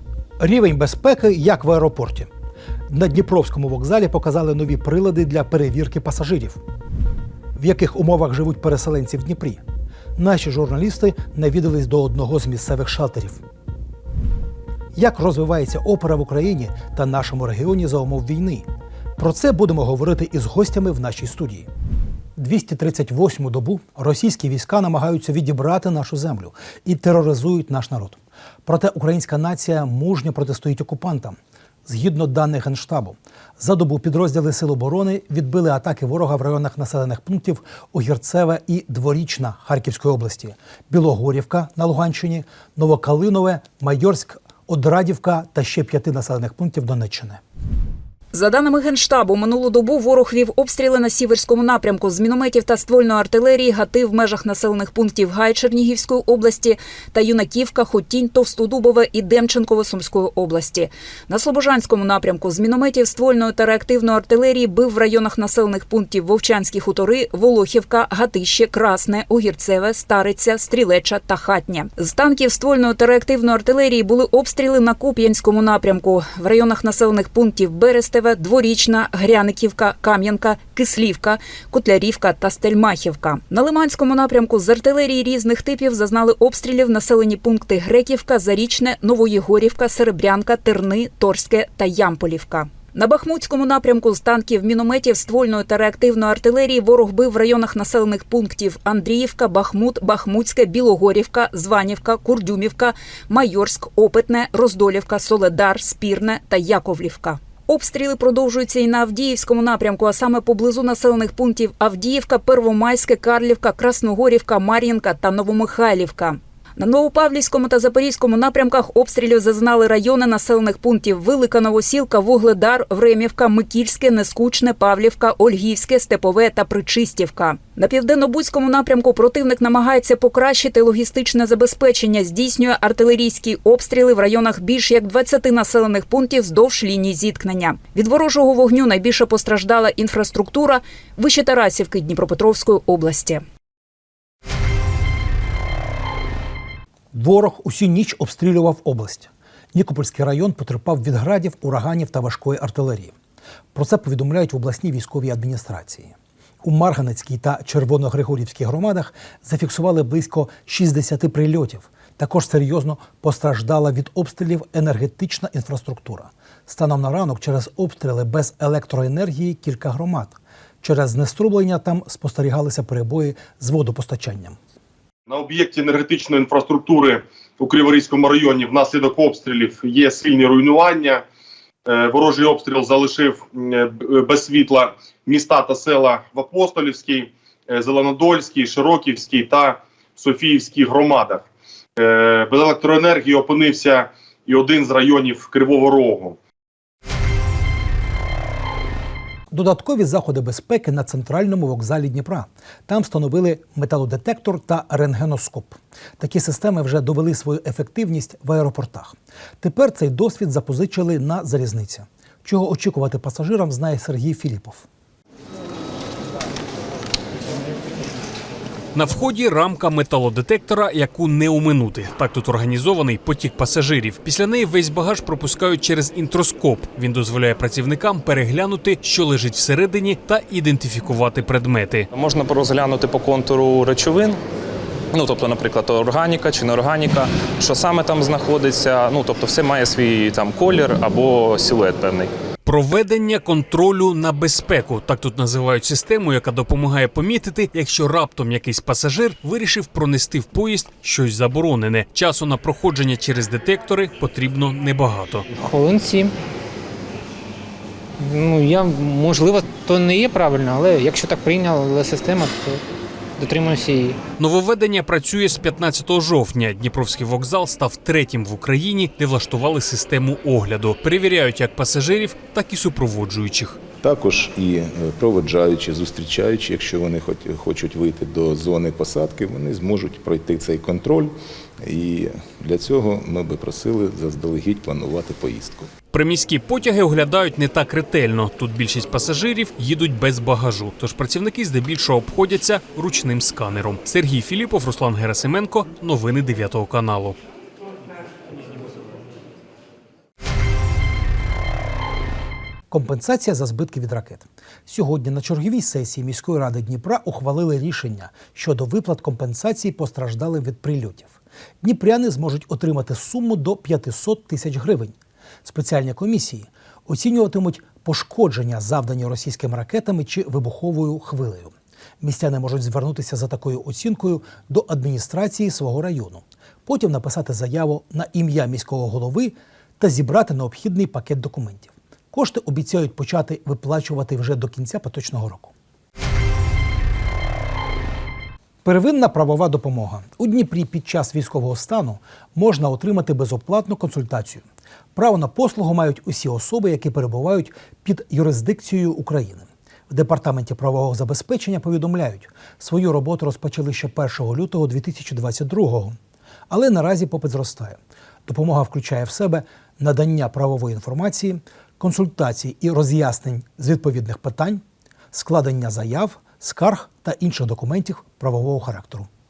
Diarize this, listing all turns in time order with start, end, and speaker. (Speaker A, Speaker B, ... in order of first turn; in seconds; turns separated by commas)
Speaker A: 0.4-2.3, Speaker A: 2.9-6.6, Speaker A: 7.6-9.6, Speaker A: 10.2-13.4, Speaker A: 14.9-21.7, Speaker A: 22.4-47.4, Speaker B: 48.3-56.5, Speaker C: 48.4-60.9, Speaker B: 57.1-143.4, Speaker C: 61.4-81.3, Speaker C: 82.1-82.6, Speaker C: 83.1-99.5, Speaker C: 100.0-102.9, Speaker C: 103.6-114.0, Speaker C: 114.6-116.3, Speaker C: 117.4-138.1, Speaker C: 138.6-143.4, Speaker A: 147.1-153.1, Speaker A: 153.7-174.6, Speaker D: 175.3-181.2, Speaker D: 181.8-191.4, Speaker D: 192.0-196.4, Speaker A: 199.5-214.8, Speaker C: 218.9-232.1, Speaker E: 232.1-234.4, Speaker E: 235.1-242.3, Speaker C: 242.6-255.4, Speaker F: 255.5-256.3, Speaker F: 258.2-262.8, Speaker F: 263.4-264.2, Speaker C: 264.4-273.8, Speaker G: 274.0-285.9, Speaker C: 286.1-297.4, Speaker A: 302.9-315.1, Speaker A: 315.6-335.7, Speaker A: 338.8-356.1, Speaker A: 356.7-369.3